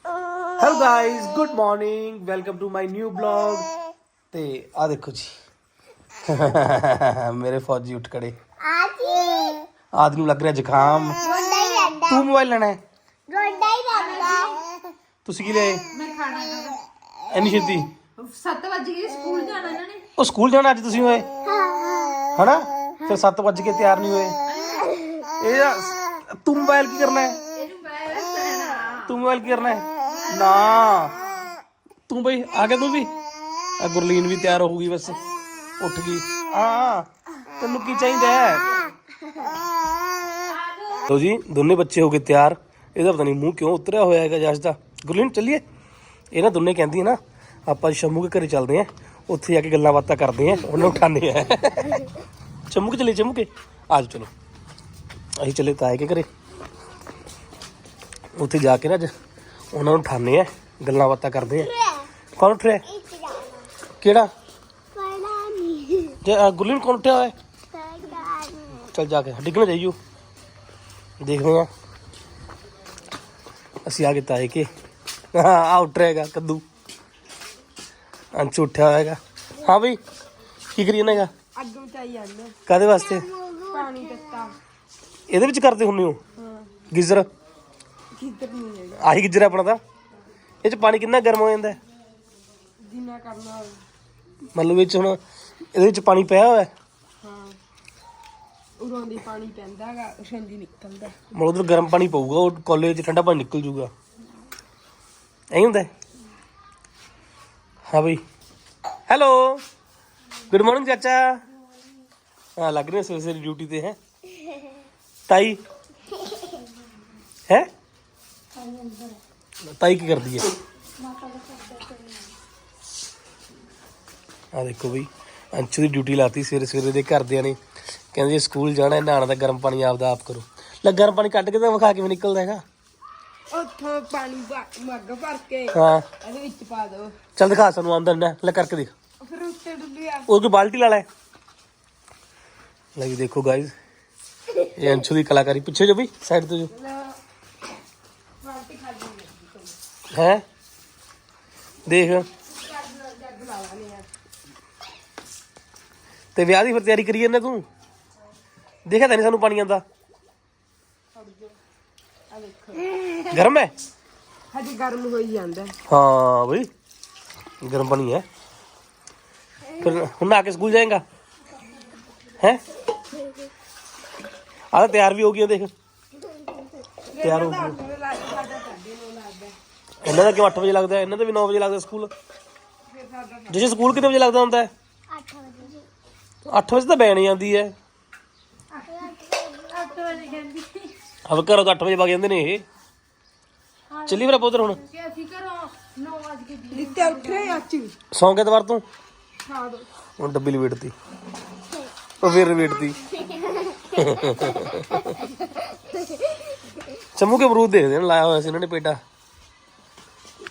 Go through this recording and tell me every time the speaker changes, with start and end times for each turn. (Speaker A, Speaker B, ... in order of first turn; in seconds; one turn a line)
Speaker A: 0.6-3.7
Speaker A: 4.3-5.3
Speaker A: 6.3-8.4
Speaker B: 8.6-9.7
Speaker A: 9.9-11.2
Speaker B: 11.2-12.3
Speaker A: 12.1-12.8
Speaker B: 13.3-14.7
Speaker C: 13.9-14.6
Speaker A: 15.2-15.8
Speaker C: 15.9-16.8
Speaker A: 17.3-17.9
Speaker C: 18.2-20.1
Speaker A: 20.2-21.3
Speaker B: 21.4-22.3
Speaker A: 22.4-24.4
Speaker C: 24.5-25.2
Speaker A: 25.4-27.4
Speaker C: 27.6-29.2
Speaker A: 29.1-31.1
Speaker C: 30.0-30.8
Speaker A: 32.1-33.1
Speaker A: 33.8-35.2
Speaker A: 35.8-37.1
Speaker A: 37.6-38.7
Speaker C: 40.5-41.1
Speaker A: 41.1-45.6
Speaker A: 46.3-52.0
Speaker A: 52.7-54.3
Speaker A: 55.4-56.3
Speaker A: 58.4-59.1
Speaker A: 59.7-61.7
Speaker B: 61.4-62.1
Speaker A: 62.4-62.9
Speaker B: 62.9-63.7
Speaker A: 64.0-64.3
Speaker B: 64.9-66.2
Speaker A: 66.2-67.3
Speaker B: 67.7-68.9
Speaker A: 68.9-70.0
Speaker A: 71.2-71.7
Speaker A: 73.8-74.7
Speaker A: 75.3-76.6
Speaker A: 78.3-80.0
Speaker A: 80.8-81.3
Speaker D: 81.5-82.5
Speaker A: 82.7-83.3
Speaker B: 82.9-84.5
Speaker D: 83.7-84.5
Speaker A: 85.3-86.2
Speaker D: 86.4-86.7
Speaker A: 86.9-87.3
Speaker D: 88.2-89.1
Speaker A: 89.0-89.8
Speaker A: 90.6-91.8
Speaker D: 92.8-93.8
Speaker A: 94.5-95.2
Speaker A: 95.7-96.7
Speaker D: 97.2-97.6
Speaker D: 98.8-101.2
Speaker A: 101.3-103.9
Speaker A: 105.5-105.9
Speaker A: 107.9-108.2
Speaker A: 109.1-109.6
Speaker A: 110.5-111.4
Speaker A: 112.6-114.0
Speaker A: 115.3-115.6
Speaker C: 118.6-119.1
Speaker A: 119.7-120.5
Speaker C: 121.1-122.0
Speaker A: 124.5-127.6
Speaker A: 128.1-132.6
Speaker D: 133.5-137.2
Speaker A: 135.7-136.1
Speaker A: 137.4-138.9
Speaker D: 139.2-140.3
Speaker A: 140.3-141.1
Speaker A: 143.0-143.7
Speaker A: 144.8-146.7
Speaker D: 146.8-147.2
Speaker D: 148.4-149.8
Speaker A: 150.1-150.4
Speaker A: 151.9-152.3
Speaker D: 152.5-154.1
Speaker A: 156.3-157.7
Speaker A: 158.9-159.8
Speaker D: 161.2-161.6
Speaker D: 162.3-162.9
Speaker A: 163.3-163.7
Speaker D: 164.5-165.8
Speaker A: 165.9-166.7
Speaker A: 167.6-168.3
Speaker A: 169.8-171.0
Speaker A: 174.7-175.7
Speaker D: 177.1-179.6
Speaker A: 177.2-177.8
Speaker A: 180.0-182.1
Speaker D: 182.9-183.7
Speaker A: 183.5-184.7
Speaker B: 185.1-185.9
Speaker A: 186.5-187.8
Speaker B: 188.8-190.4
Speaker C: 189.7-190.9
Speaker A: 191.3-192.7
Speaker C: 193.9-197.6
Speaker A: 194.1-194.8
Speaker D: 196.7-198.0
Speaker A: 198.1-198.8
Speaker D: 199.4-199.9
Speaker A: 200.2-200.9
Speaker A: 202.2-203.0
Speaker B: 202.2-205.9
Speaker A: 204.0-205.0
Speaker A: 207.2-209.0